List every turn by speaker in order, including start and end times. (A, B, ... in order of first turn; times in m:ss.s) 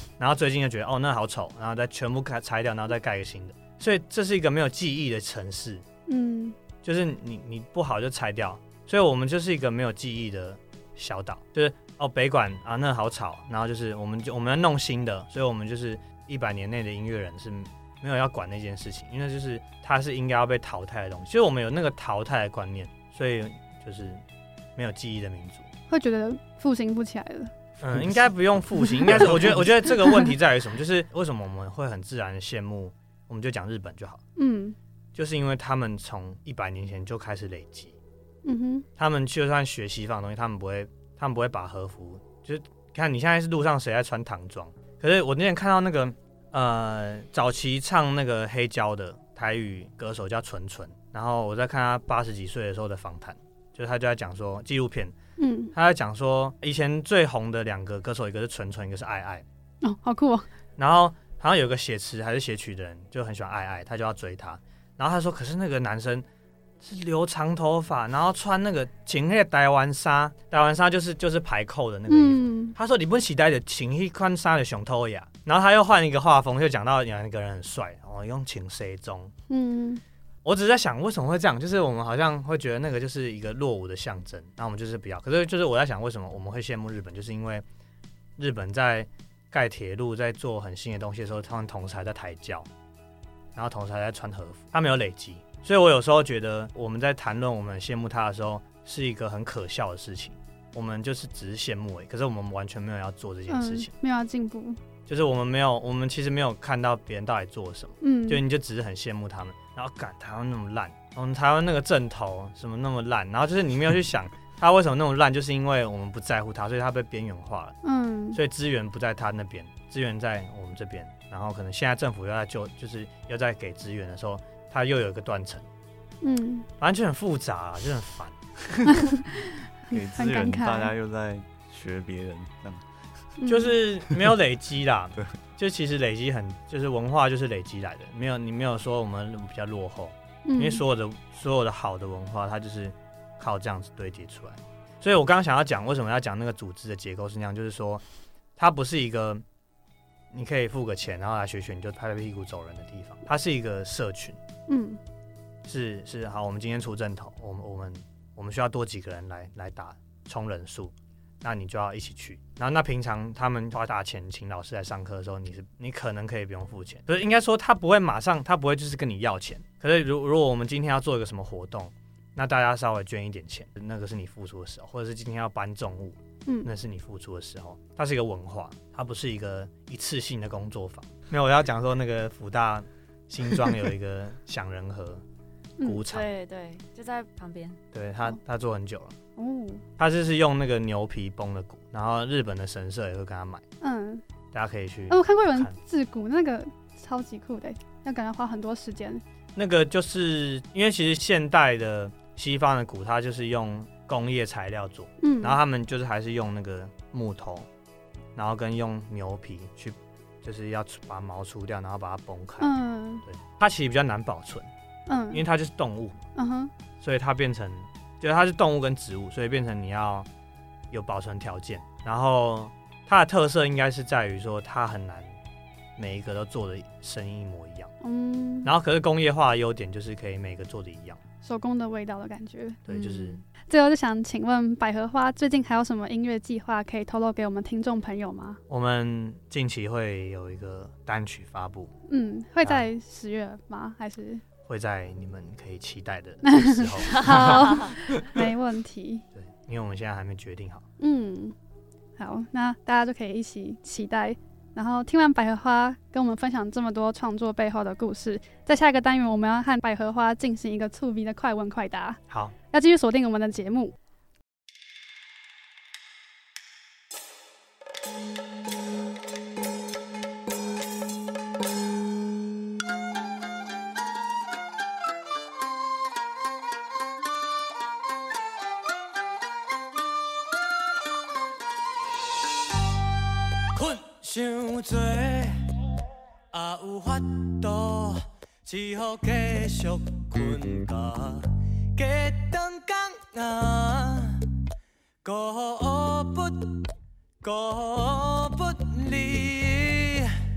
0:00.2-0:05.8 A
0:06.1-0:06.6 B
0:06.8-0:24.2 A
0:24.8-0:25.7 A
0:25.9-0:27.5 B
0:27.8-0:34.2 A
0:28.8-0:29.3 B
0:34.4-0:34.8 B
0:35.1-0:37.9 A
0:38.4-0:38.8 B
0:39.0-0:55.1 A
0:55.4-0:55.7 B
0:55.7-0:59.4 A
0:59.8-1:00.5 B
1:00.8-1:06.2 A
1:06.8-1:19.3 A
1:12.1-1:12.7 B
1:19.5-1:20.0 B
1:20.4-1:27.6 A
1:28.4-1:32.7 A
1:33.5-1:43.9 A
1:43.5-1:44.8 B
1:45.1-1:57.8 A
1:48.0-1:48.4 B
1:57.8-1:58.4 B
1:58.3-2:05.7 A
2:06.2-2:06.7 B
2:06.8-2:08.4 A
2:08.9-2:09.2 B
2:09.9-2:10.9 B
2:09.9-2:12.8 C
2:13.4-2:13.8 B
2:13.5-2:28.0 A
2:20.4-2:20.8 B
2:28.6-2:29.4 A
2:30.3-2:34.4 A
2:34.7-2:35.0 B
2:35.6-3:05.2 A
3:05.8-3:06.3 A
3:06.0-3:07.8 D
3:07.9-3:09.2 A
3:09.4-3:09.8 B
3:10.0-3:13.6 A
3:13.8-3:14.2 B
3:14.5-3:15.7 A
3:15.1-3:19.2 B
3:19.6-3:27.7 A
3:25.2-3:25.6 B
3:28.3-3:32.7 A
3:32.6-3:33.2 B
3:33.2-3:34.7 A
3:35.1-3:35.4 B
3:35.3-3:36.2 A
3:36.4-3:36.7 B
3:37.0-3:40.3 A
3:40.9-3:45.4 A
3:46.0-3:47.9 A
3:48.0-3:48.7 B
3:48.6-3:51.2 A
3:51.4-3:52.8 B
3:52.9-3:53.4 A
3:52.9-3:53.4 D
3:53.7-3:58.6 B
3:58.7-4:01.9 A
4:02.1-4:04.4 B
4:04.7-4:07.9 A
4:06.4-4:09.2 B
4:09.3-4:10.8 A
4:11.0-4:11.5 B
4:12.2-4:22.2 B
4:22.7-4:23.9 B
4:43.7-4:45.5 E
4:46.5-4:54.4 E
4:55.2-4:56.8 E
4:57.4-5:00.3 E